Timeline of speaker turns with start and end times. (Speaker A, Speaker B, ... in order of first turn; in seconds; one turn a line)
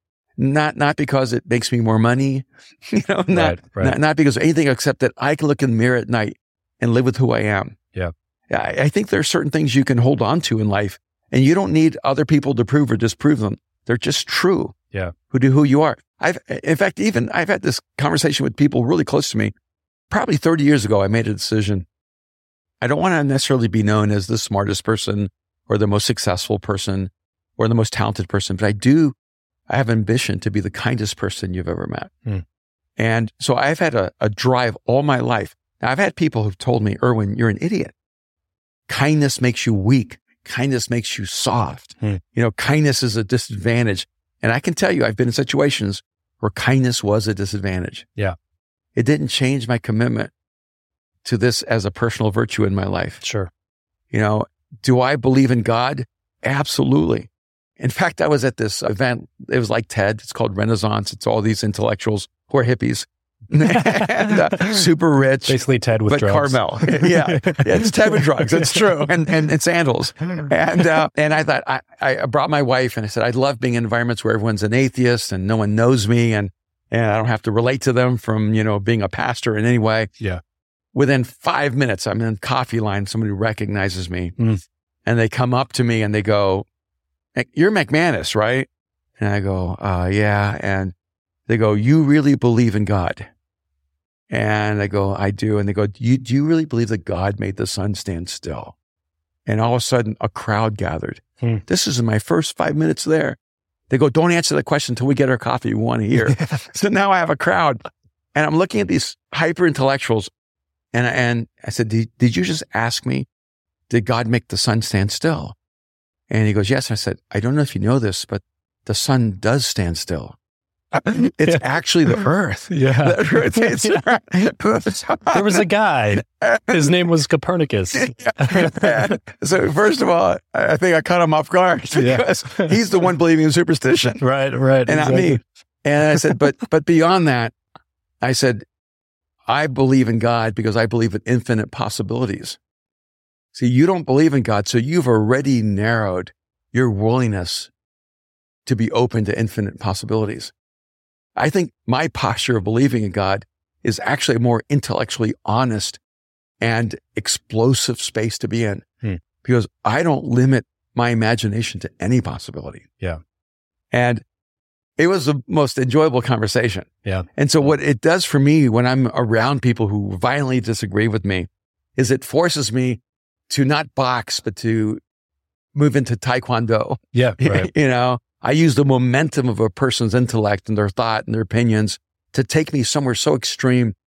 Speaker A: 0.4-7.8
Speaker B: 3.3-4.0
Speaker A: 8.5-14.7
Speaker A: 15.3-19.5
Speaker A: 20.1-21.9
Speaker A: 22.8-29.1
Speaker A: 29.7-32.1
Speaker A: 33.0-37.9
Speaker A: 38.9-48.0
Speaker A: 48.9-50.3
Speaker A: 51.2-53.2
Speaker B: 53.2-53.5
Speaker A: 54.1-80.1
Speaker B: 63.6-64.8
Speaker B: 65.5-68.8
Speaker A: 80.9-84.4
Speaker A: 85.0-86.7
Speaker A: 87.3-88.7
Speaker A: 89.2-90.9
Speaker A: 91.5-93.3
Speaker A: 94.3-98.7
Speaker A: 99.5-103.4
Speaker A: 103.9-110.3
Speaker A: 110.9-113.3
Speaker A: 113.9-115.5
Speaker A: 116.3-120.3
Speaker A: 121.0-125.6
Speaker B: 122.7-124.0
Speaker B: 125.3-129.2
Speaker A: 126.4-126.9
Speaker A: 127.9-134.2
Speaker B: 131.9-132.8
Speaker B: 134.2-135.4
Speaker A: 134.8-137.5
Speaker A: 138.2-138.6
Speaker A: 139.5-142.6
Speaker A: 143.5-147.7
Speaker A: 148.7-150.5
Speaker A: 151.3-156.0
Speaker A: 156.6-158.8
Speaker A: 159.4-162.8
Speaker A: 163.9-164.2
Speaker A: 165.0-175.0
Speaker A: 175.7-183.9
Speaker B: 177.1-177.7